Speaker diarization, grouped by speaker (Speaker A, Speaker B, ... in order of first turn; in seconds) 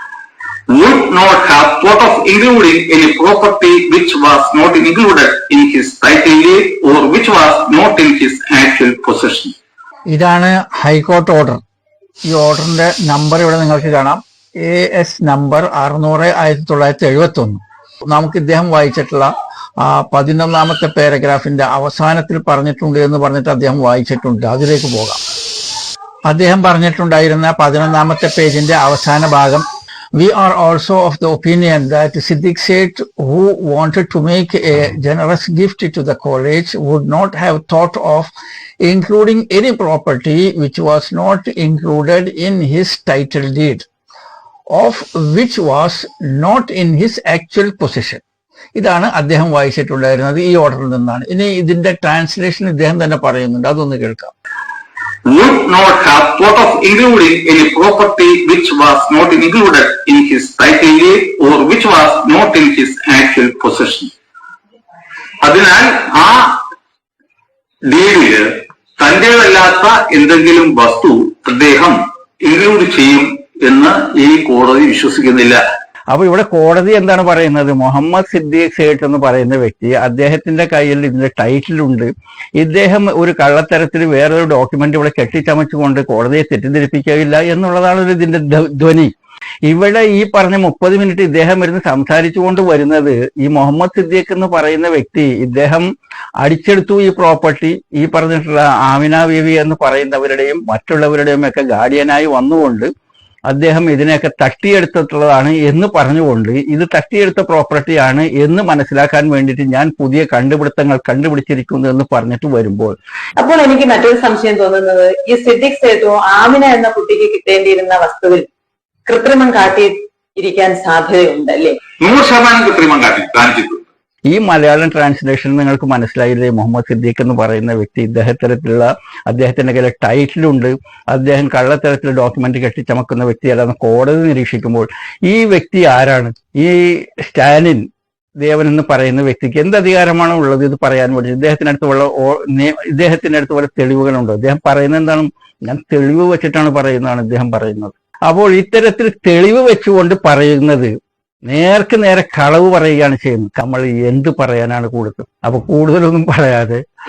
Speaker A: 0.7-9.5, 55.3-64.1, 65.4-66.6, 67.9-68.5, 69.0-75.6, 122.0-123.8
Speaker B: 10.1-11.6, 12.3-25.2, 26.3-38.3, 38.8-43.9, 44.7-48.2, 48.8-54.3, 76.1-89.1, 89.7-95.9, 96.4-102.9, 103.5-113.0, 124.3-137.8, 138.4-150.9, 151.5-156.8
Speaker C: 113.4-118.5, 119.0-121.8